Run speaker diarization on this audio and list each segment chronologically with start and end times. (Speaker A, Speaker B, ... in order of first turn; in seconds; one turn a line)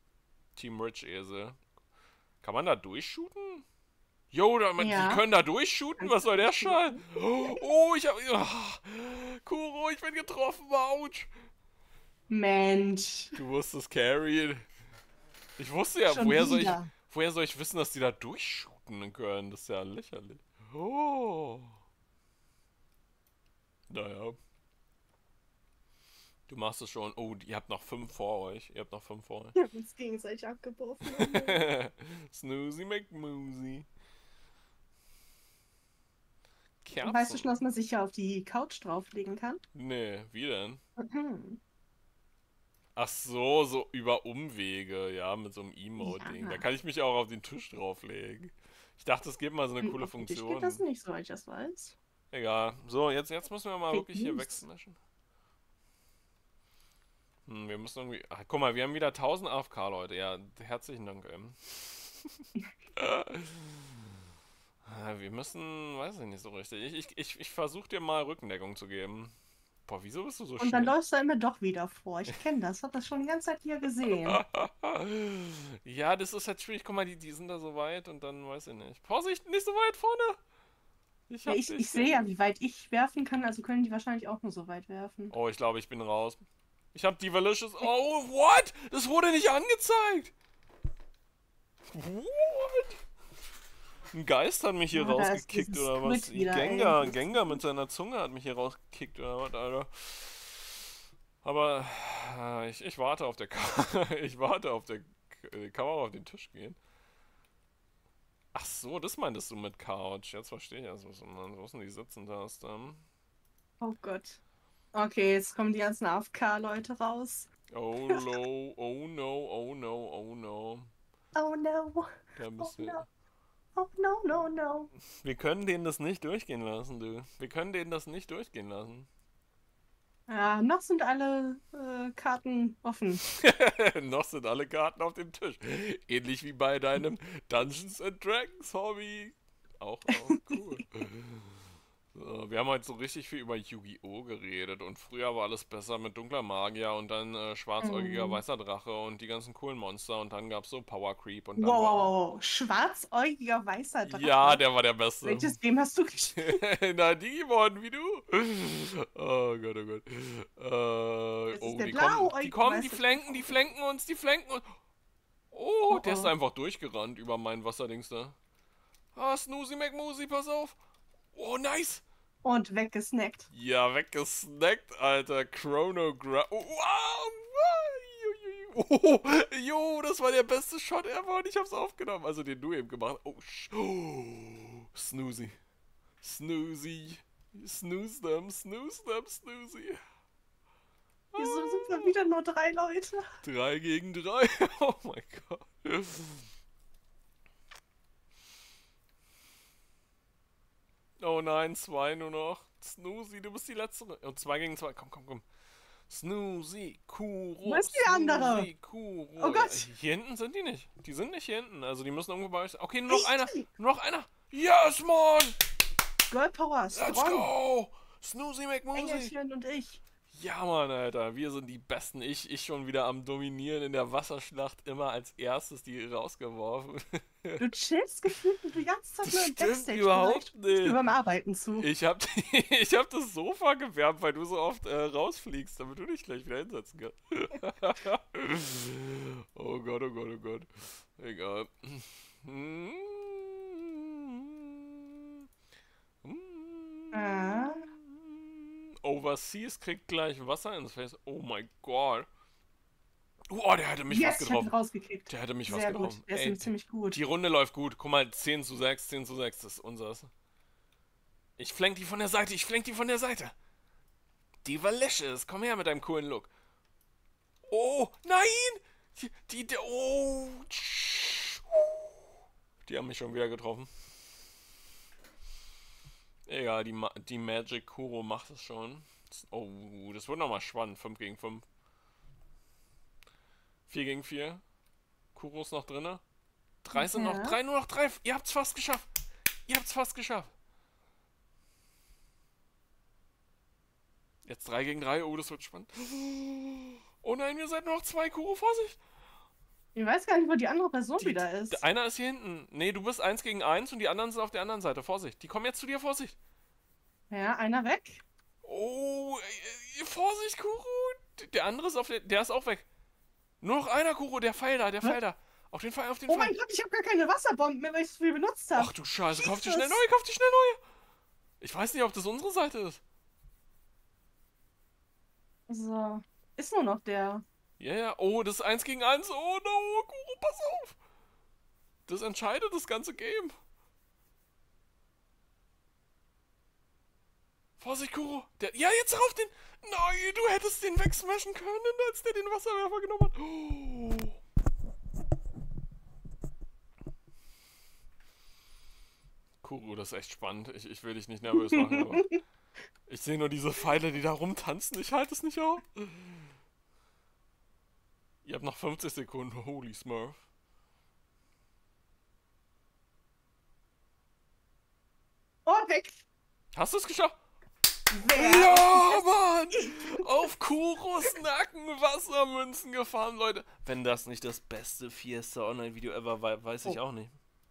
Speaker A: 0.6-1.6
Speaker A: 2.4-3.6
Speaker A: 4.3-11.3
Speaker B: 4.8-5.2
Speaker B: 6.0-7.6
Speaker B: 12.3-13.4
Speaker A: 13.3-14.6
Speaker A: 15.6-21.8
Speaker B: 16.1-16.9
Speaker A: 23.9-24.4
Speaker A: 26.5-29.6
Speaker B: 29.6-31.6
Speaker A: 31.1-33.9
Speaker A: 36.8-37.6
Speaker B: 37.0-39.6
Speaker A: 39.7-40.8
Speaker B: 41.0-41.6
Speaker A: 43.0-50.8
Speaker B: 46.0-46.6
Speaker B: 49.8-51.9
Speaker A: 52.3-55.0
Speaker B: 53.9-54.6
Speaker A: 57.5-62.3
Speaker A: 63.0-63.8
Speaker A: 64.8-69.3
Speaker A: 69.9-70.9
Speaker B: 70.6-74.4
Speaker A: 74.2-80.4
Speaker A: 81.3-82.3
Speaker B: 81.5-85.3
Speaker A: 85.3-86.4
Speaker A: 86.9-90.3
Speaker A: 91.9-93.0
Speaker A: 94.1-100.7
Speaker B: 94.9-97.6
Speaker A: 101.4-106.8
Speaker A: 108.5-113.0
Speaker B: 113.8-114.4
Speaker B: 114.9-117.5
Speaker A: 117.7-120.9
Speaker B: 118.1-118.3
Speaker B: 121.3-123.0
Speaker A: 122.3-123.0
Speaker B: 123.8-124.9
Speaker A: 125.2-129.1
Speaker B: 130.3-133.2
Speaker A: 133.2-141.5
Speaker B: 140.2-140.5
Speaker A: 142.1-152.1
Speaker B: 147.8-148.4
Speaker B: 151.6-154.6
Speaker A: 154.0-155.6
Speaker B: 155.2-156.6
Speaker A: 156.4-164.7
Speaker B: 161.5-163.5
Speaker A: 165.5-168.3
Speaker B: 165.9-166.3
Speaker A: 169.1-170.8
Speaker A: 171.3-172.0
Speaker B: 172.4-173.5
Speaker A: 173.5-185.6
Speaker A: 186.2-190.0
Speaker A: 191.3-192.1
Speaker B: 191.4-193.2
Speaker A: 193.4-196.4
Speaker A: 201.2-205.4
Speaker A: 206.1-215.6
Speaker B: 207.6-208.7
Speaker B: 209.4-209.9
Speaker B: 213.1-213.6
Speaker B: 216.3-217.5
Speaker A: 216.9-219.3
Speaker B: 218.9-220.0
Speaker A: 220.3-227.6
Speaker B: 227.6-231.9
Speaker A: 229.2-231.0
Speaker A: 231.8-245.1
Speaker A: 246.2-252.3
Speaker B: 247.1-247.8
Speaker A: 253.5-254.7
Speaker B: 254.1-257.2
Speaker A: 255.3-260.3
Speaker A: 261.6-263.5
Speaker A: 264.6-266.5
Speaker A: 267.7-272.1
Speaker A: 272.8-273.9
Speaker A: 276.5-281.6
Speaker A: 283.9-284.6
Speaker A: 285.3-286.2
Speaker A: 286.8-289.1
Speaker B: 286.9-287.6
Speaker A: 289.7-290.5
Speaker A: 294.4-299.0
Speaker B: 299.9-301.8
Speaker A: 301.2-306.3
Speaker B: 307.3-308.2
Speaker A: 308.6-312.8
Speaker A: 313.6-316.5
Speaker B: 316.3-320.0
Speaker A: 318.7-320.8
Speaker A: 321.6-323.0
Speaker B: 325.7-327.4
Speaker A: 327.8-331.0
Speaker A: 332.1-333.6
Speaker A: 337.8-344.4
Speaker A: 349.6-352.4
Speaker B: 351.5-352.4
Speaker A: 353.1-356.5
Speaker A: 358.4-360.4
Speaker B: 365.6-366.2
Speaker A: 366.7-367.4
Speaker B: 368.1-370.2
Speaker A: 368.3-377.4